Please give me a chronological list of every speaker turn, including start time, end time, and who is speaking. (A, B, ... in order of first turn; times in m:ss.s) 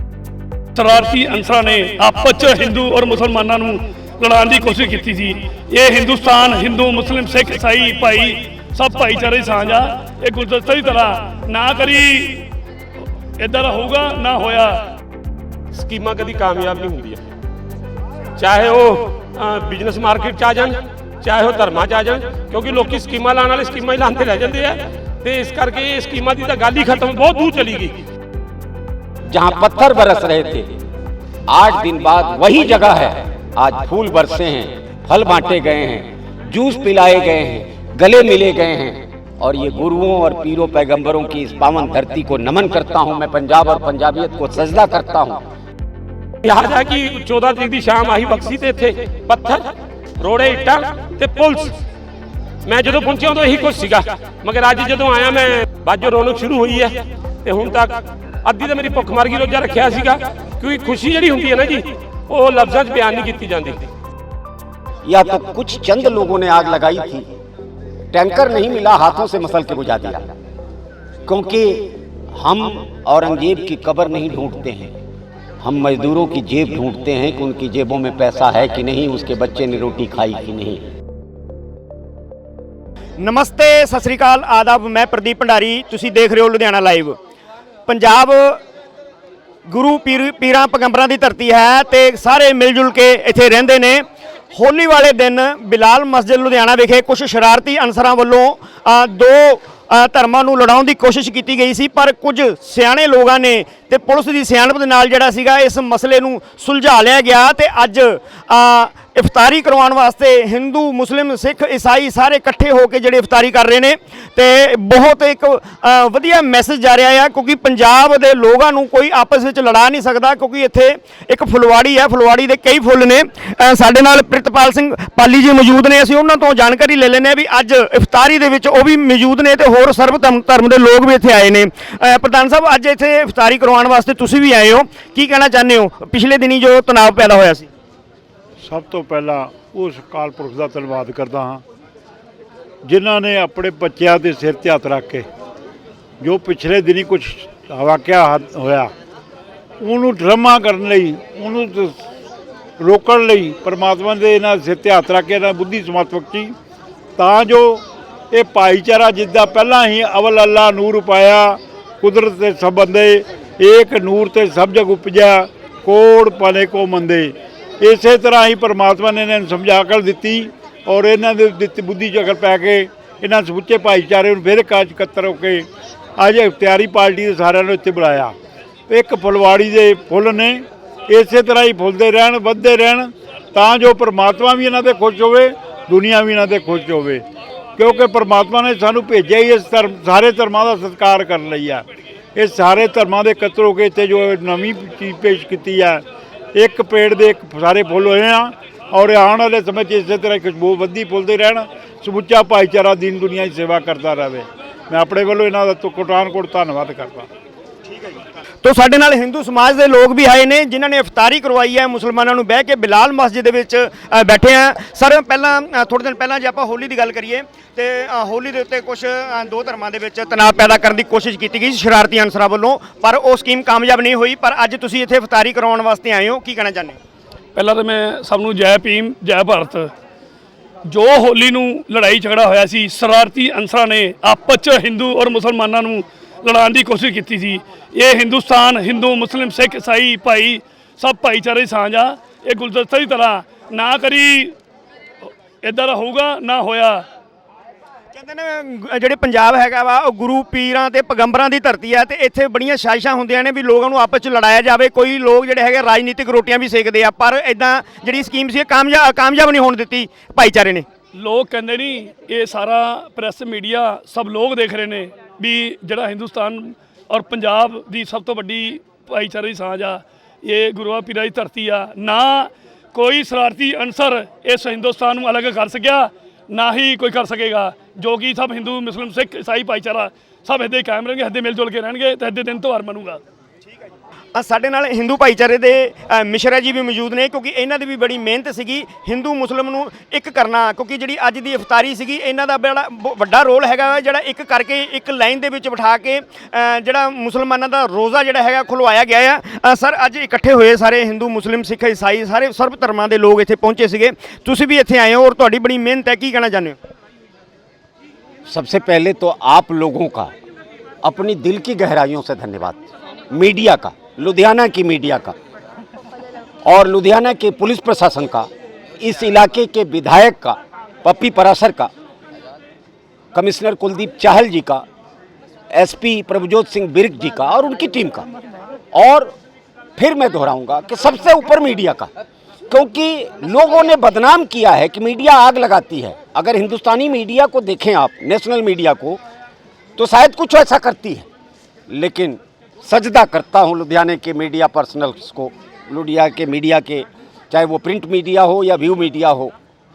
0:00.7-0:12.5 A
0:13.4-0:15.0 A
0:15.7-0:17.2 B
0:18.4-0:28.0 B
0:29.3-0:30.8 C
0:31.5-0:45.4 C
0:46.4-0:51.8 B
0:52.6-1:03.8 B
1:05.0-1:07.3 C
1:08.1-1:10.3 C
1:11.3-1:14.9 C
1:15.6-1:20.8 C
1:23.2-1:27.2 D
1:27.9-1:28.6 D
1:29.7-2:17.7 D
2:18.6-2:21.6 E
2:22.8-2:25.2 E
2:26.2-2:28.9 E
2:29.8-2:32.0 E
2:32.8-2:36.5 E
2:37.2-2:55.6 E
2:56.2-2:58.3 E
2:58.9-3:07.2 E
3:07.8-3:16.0 E
3:16.5-3:27.3 E
3:27.9-3:47.0 D
3:47.5-3:49.9 A
3:50.8-4:04.6 A
4:05.6-4:07.0 A
4:08.1-4:20.8 D
4:21.1-4:43.2 A
4:44.3-5:06.8 D
5:08.5-5:10.3 C
5:11.0-5:15.3 C
5:16.6-5:18.5 C
5:19.0-5:21.9 C
5:23.3-5:24.8 C
5:25.7-5:28.3 C
5:28.9-5:29.4 C
5:30.0-5:32.1 C
5:32.7-5:39.2 C
5:40.0-5:41.2 C
5:41.9-5:49.5 C